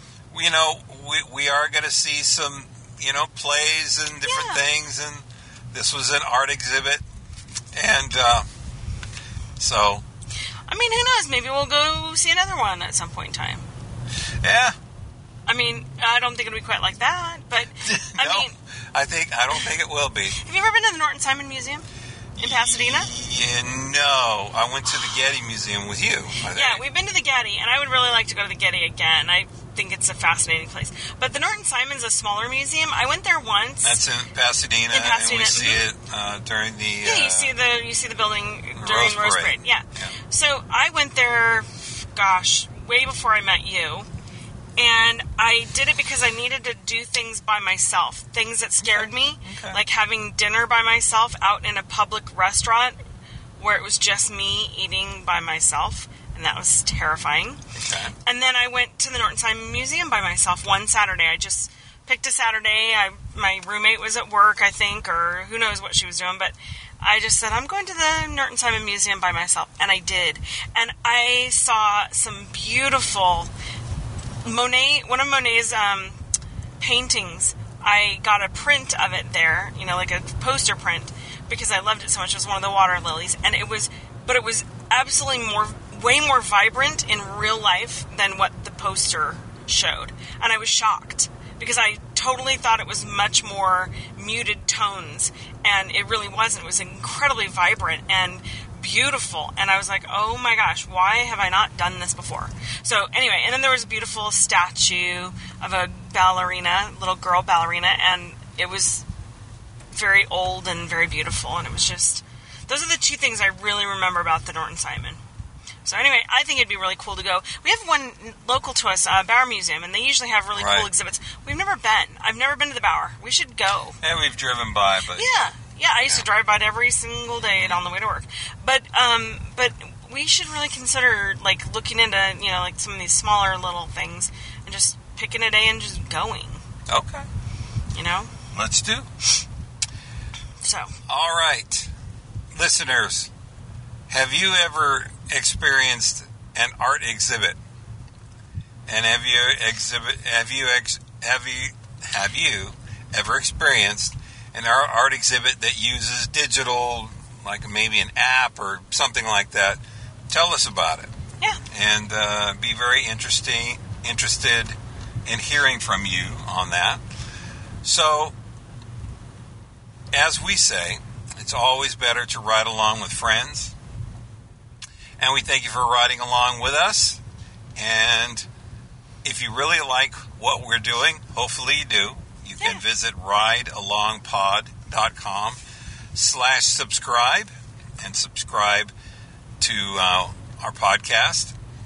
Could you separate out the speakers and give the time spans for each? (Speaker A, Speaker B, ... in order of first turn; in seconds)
Speaker A: 0.3-7.0, 7.7-8.5, 9.6-10.0, 14.4-14.8, 17.8-20.4, 22.4-26.8, 33.8-37.5, 38.8-40.1, 48.8-49.8, 57.8-58.1, 120.5-120.9, 124.0-125.4, 136.9-137.3, 138.5-139.1, 141.1-141.9, 142.5-143.3, 144.1-147.6, 148.9-161.1, 161.7-167.0, 167.8-168.3, 170.1-173.7, 175.2-177.2, 177.8-178.5, 179.2-185.6, 186.1-188.9, 189.6-191.5
Speaker B: 4.2-4.6, 10.7-13.6, 15.5-18.5, 20.3-21.9, 22.4-23.1, 26.4-34.0, 34.9-35.9, 37.0-44.1, 44.8-53.0, 53.6-57.6, 58.2-73.5, 74.4-76.2, 76.8-109.0, 109.9-115.2, 115.8-124.0, 125.1-136.6, 137.9-138.3, 140.6-140.9